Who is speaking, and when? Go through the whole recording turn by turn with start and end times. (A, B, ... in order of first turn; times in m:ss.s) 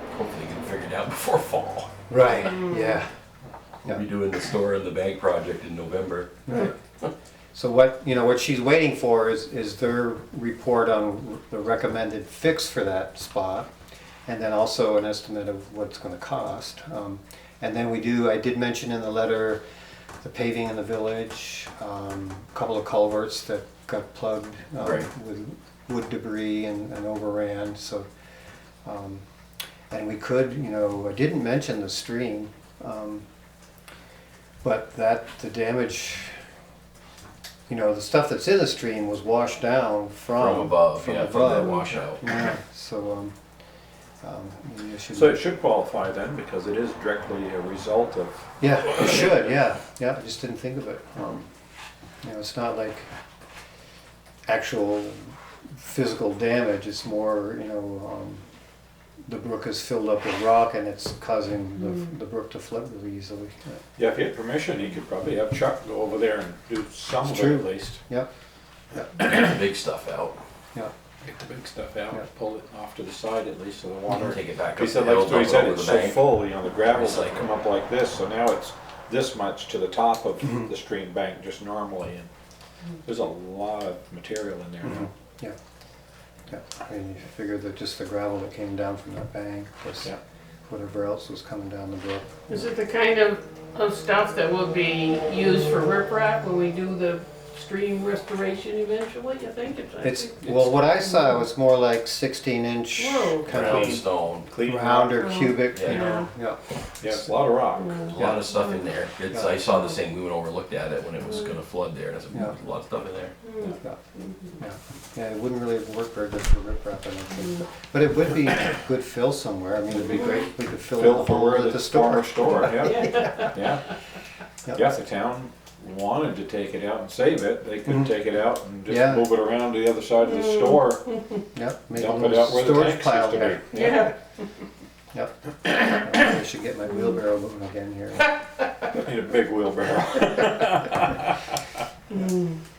0:00.1-0:02.4 A
0:02.1-0:03.1 B
0:02.5-0:03.0 C
0:03.9-0:06.4 A
0:06.5-0:06.7 B
0:07.5-0:13.7 B
0:14.3-0:19.6 B
0:20.2-0:28.1 B
0:24.8-0:25.1 A
0:28.8-0:29.2 B
0:29.9-0:33.2 B
0:34.6-0:36.4 B
0:37.7-0:43.3 B
0:40.4-0:42.2 A
0:44.2-0:45.4 B
0:45.1-0:48.4 D
0:48.6-0:51.5 B
0:52.2-0:53.1 B
0:54.5-0:58.4 B
0:59.3-1:03.8 B
1:04.0-1:08.0 D
1:07.2-1:08.3 B
1:09.2-1:10.4 A
1:11.2-1:22.3 D
1:14.3-1:17.5 A
1:23.0-1:25.1 D
1:24.8-1:25.6 B
1:26.5-1:30.1 B
1:30.7-1:32.7 B
1:32.5-1:41.3 C
1:40.0-1:44.0 B
1:43.0-1:43.9 C
1:43.5-1:44.5 A
1:44.5-1:45.3 D
1:44.6-1:46.6 B
1:45.2-1:46.3 C
1:45.7-1:46.0 A
1:47.0-1:48.3 D
1:47.8-1:48.7 C
1:48.1-1:53.3 A
1:53.4-1:54.6 C
1:54.6-2:03.5 B
1:59.9-2:00.3 D
2:00.9-2:03.9 D
2:03.0-2:03.3 C
2:04.7-2:11.1 D
2:08.9-2:09.3 B
2:10.3-2:11.0 C
2:11.5-2:13.6 B
2:11.9-2:14.1 D
2:13.7-2:14.1 C
2:15.9-2:18.4 B
2:18.9-2:21.3 D
2:22.1-2:22.6 C